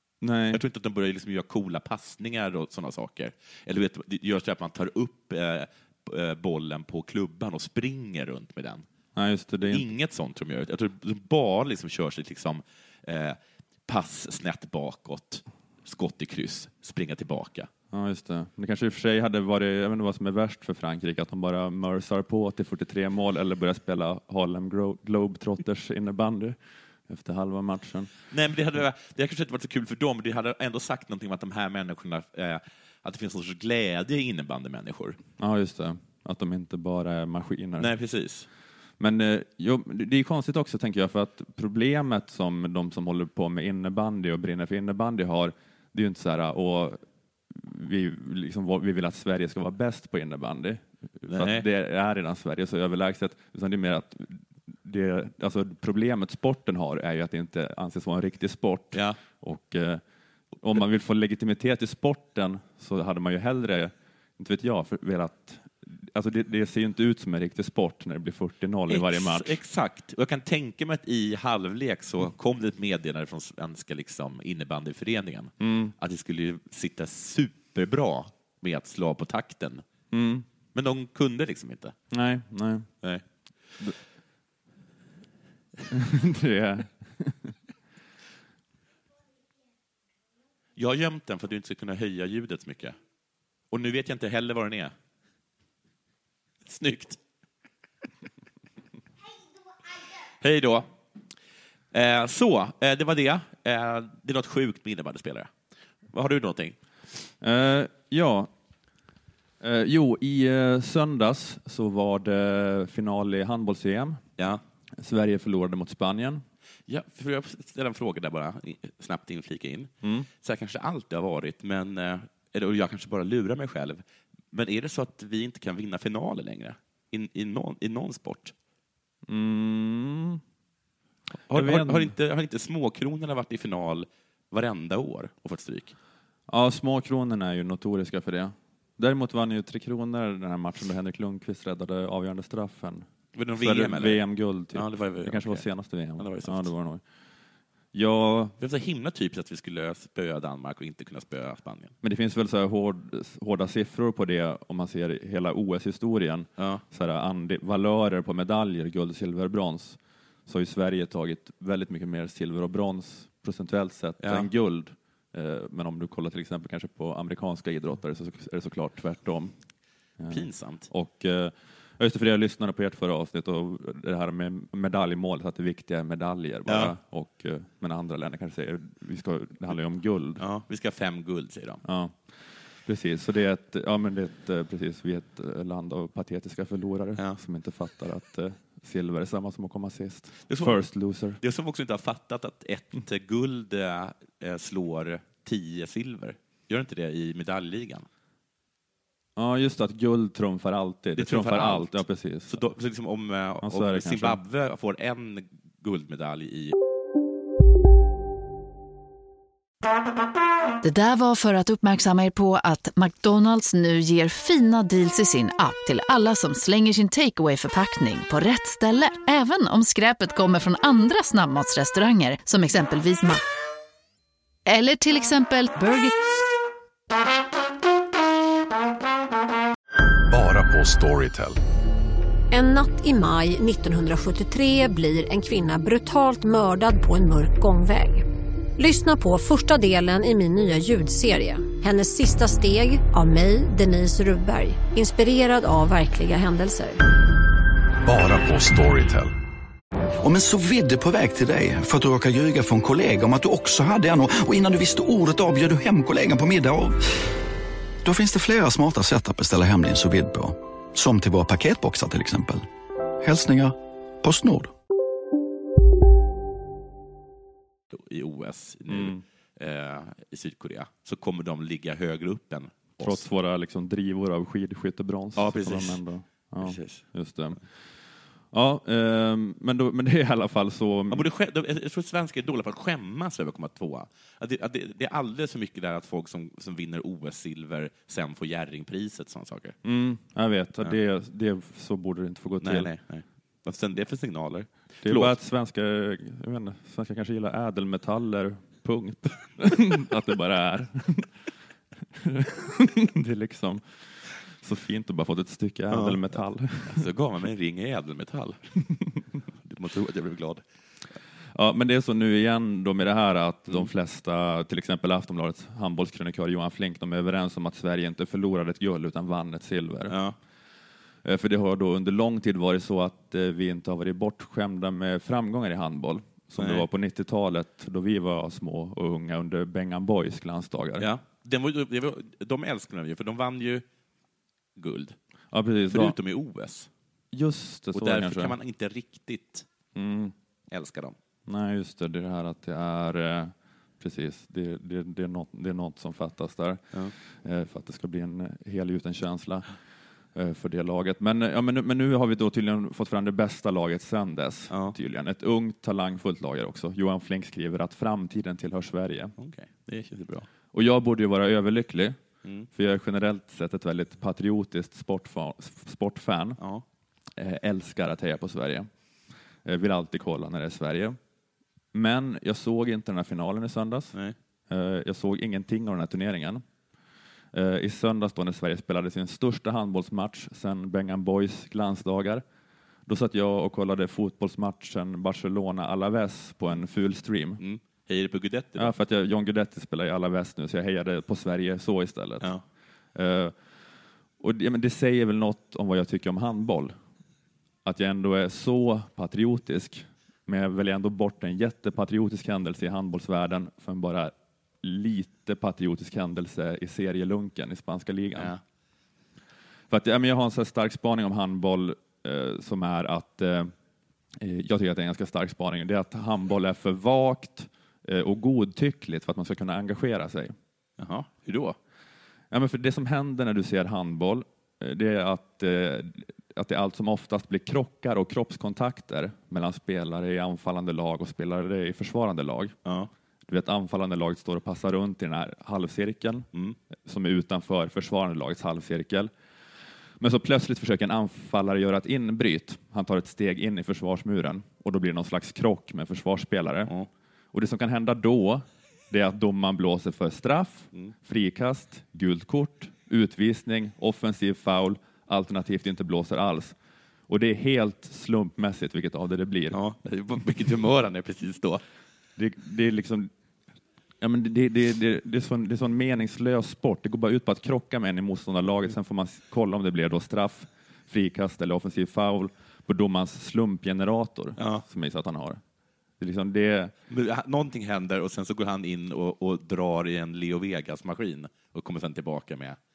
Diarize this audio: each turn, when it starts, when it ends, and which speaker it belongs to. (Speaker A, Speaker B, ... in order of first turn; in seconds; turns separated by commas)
Speaker A: 0.2-0.6, Speaker B: 0.5-8.8, Speaker A: 9.1-9.9, Speaker B: 9.7-17.7, Speaker A: 17.9-28.1, Speaker B: 28.3-35.2, Speaker A: 35.4-37.9, Speaker B: 37.8-38.5, Speaker A: 39.0-60.0, Speaker B: 51.2-51.6, Speaker B: 58.9-59.2, Speaker A: 60.6-69.6, Speaker B: 68.9-79.8, Speaker A: 75.6-75.9, Speaker A: 80.1-80.5, Speaker B: 80.7-81.9, Speaker A: 82.1-82.9, Speaker A: 85.9-87.5, Speaker B: 90.8-93.0, Speaker B: 93.7-94.9, Speaker B: 96.7-97.2, Speaker B: 100.4-100.9, Speaker B: 101.9-105.5, Speaker B: 106.1-106.8, Speaker A: 107.4-108.5, Speaker A: 109.6-114.2, Speaker A: 115.0-116.4, Speaker B: 116.9-119.9, Speaker B: 120.4-128.5, Speaker A: 129.3-130.4, Speaker B: 131.5-135.9, Speaker A: 131.5-132.1, Speaker A: 136.5-143.1, Speaker B: 143.3-145.7, Speaker A: 143.6-147.0, Speaker B: 146.2-146.7, Speaker A: 147.9-148.5, Speaker B: 148.6-151.9, Speaker A: 152.0-169.5, Speaker B: 156.6-156.8, Speaker B: 164.2-164.5, Speaker A: 170.2-180.4, Speaker B: 170.3-170.9, Speaker B: 176.7-176.9, Speaker B: 180.4-181.8, Speaker A: 181.8-191.4, Speaker B: 190.5-190.8, Speaker B: 191.4-198.1, Speaker A: 199.3-202.6, Speaker B: 201.2-206.7, Speaker A: 203.6-204.4, Speaker C: 210.8-223.4, Speaker C: 224.7-226.1, Speaker D: 230.3-231.6, Speaker E: 232.5-238.2, Speaker E: 238.8-247.0, Speaker D: 248.0-249.3, Speaker F: 250.2-257.0, Speaker F: 258.0-262.6, Speaker F: 263.2-264.7, Speaker B: 267.9-273.2, Speaker A: 268.9-269.2, Speaker A: 273.0-277.6, Speaker B: 275.4-276.0, Speaker B: 276.6-277.1, Speaker A: 278.5-281.3, Speaker B: 281.1-289.7, Speaker A: 289.8-292.9, Speaker B: 292.6-295.4, Speaker A: 295.0-301.3, Speaker A: 302.1-307.0, Speaker B: 305.9-306.3, Speaker B: 306.8-308.6, Speaker B: 309.6-310.6, Speaker A: 311.5-320.2, Speaker B: 320.1-320.4, Speaker A: 321.2-331.1, Speaker B: 326.6-326.9, Speaker B: 331.0-333.8, Speaker B: 334.8-335.1, Speaker A: 335.5-336.1, Speaker B: 335.9-336.9, Speaker A: 337.3-338.5, Speaker B: 337.9-339.6, Speaker A: 339.9-340.3, Speaker B: 340.7-341.1, Speaker A: 341.4-349.7, Speaker A: 350.3-359.3, Speaker B: 354.7-354.9, Speaker B: 359.4-360.5, Speaker A: 360.7-362.2, Speaker A: 362.7-366.6, Speaker B: 366.6-366.8, Speaker A: 367.4-368.9, Speaker A: 369.6-371.2, Speaker A: 371.9-374.1, Speaker A: 374.7-376.6, Speaker A: 377.5-382.4, Speaker A: 383.1-387.6, Speaker B: 387.6-388.9, Speaker A: 388.8-392.5, Speaker A: 393.1-393.6, Speaker A: 394.4-397.0, Speaker A: 397.8-408.5, Speaker B: 408.3-408.6, Speaker A: 409.9-413.7, Speaker A: 414.4-420.5, Speaker B: 421.0-421.8, Speaker A: 422.5-432.8, Speaker B: 432.8-433.1, Speaker A: 433.5-436.5, Speaker A: 437.0-439.3, Speaker A: 440.2-446.9, Speaker A: 447.5-456.8, Speaker A: 457.3-459.8, Speaker B: 459.7-461.8, Speaker A: 462.4-463.3, Speaker A: 464.2-475.6, Speaker B: 474.6-474.8, Speaker A: 476.2-476.9, Speaker B: 477.1-482.8